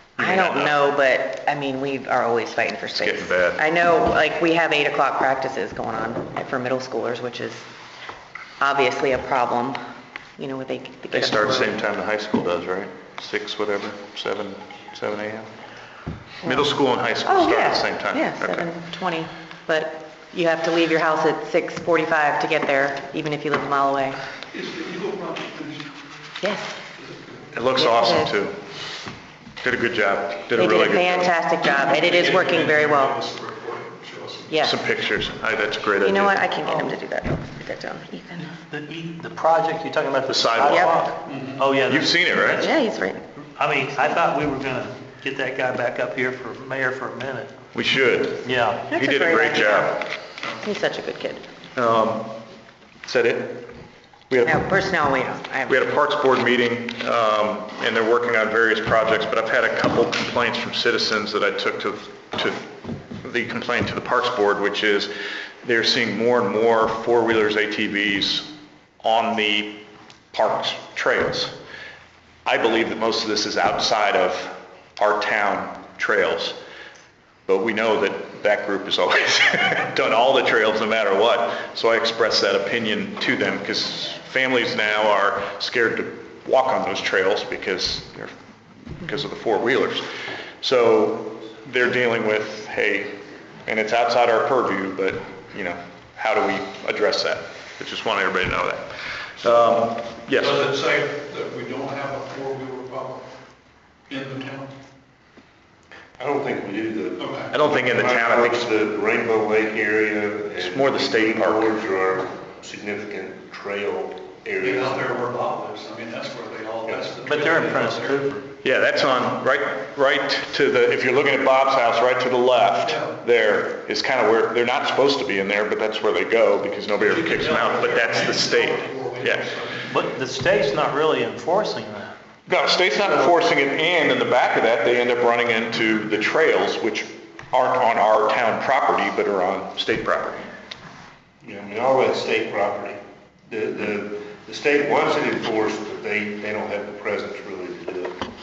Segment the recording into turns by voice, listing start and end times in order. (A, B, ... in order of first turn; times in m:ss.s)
0:00.2-0:00.8 A
0:00.2-0:07.7 B
0:02.9-0:03.6 A
0:08.6-0:09.8 B
0:10.4-0:11.8 B
0:11.1-0:15.5 A
0:16.4-0:18.7 A
0:17.2-0:24.2 B
0:24.5-0:25.9 C
0:26.4-0:26.8 B
0:27.0-0:27.5 C
0:27.5-0:28.6 A
0:27.7-0:28.3 B
0:29.6-0:31.4 A
0:30.5-0:33.2 B
0:31.7-0:34.5 C
0:34.5-0:34.8 B
0:34.6-0:36.4 A
0:36.0-0:38.5 B
0:38.5-0:42.6 D
0:40.3-0:41.0 A
0:40.7-0:41.1 B
0:41.2-0:41.6 C
0:41.9-0:42.7 A
0:42.6-0:43.2 B
0:43.6-0:47.5 D
0:47.7-0:50.1 A
0:48.4-0:48.8 D
0:48.9-0:50.0 B
0:50.6-0:51.4 B
0:51.8-0:52.3 A
0:53.0-0:53.7 A
0:54.3-0:54.7 A
0:54.4-0:55.8 B
0:55.7-1:02.6 A
1:03.2-1:05.1 A
1:05.6-1:08.5 A
1:09.0-1:11.5 A
1:12.4-1:16.6 A
1:17.5-1:28.3 A
1:29.0-1:30.0 A
1:30.6-1:40.6 A
1:40.3-1:43.2 C
1:44.1-1:44.7 C
1:46.2-1:55.1 E
1:47.2-1:47.5 C
1:47.5-1:48.7 A
1:50.6-1:51.7 A
1:54.6-1:58.2 C
1:57.2-1:58.4 D
1:58.6-2:09.5 A
2:02.8-2:03.1 C
2:06.9-2:09.9 C
2:09.9-2:12.1 D
2:12.5-2:20.4 A
2:21.4-2:28.2 E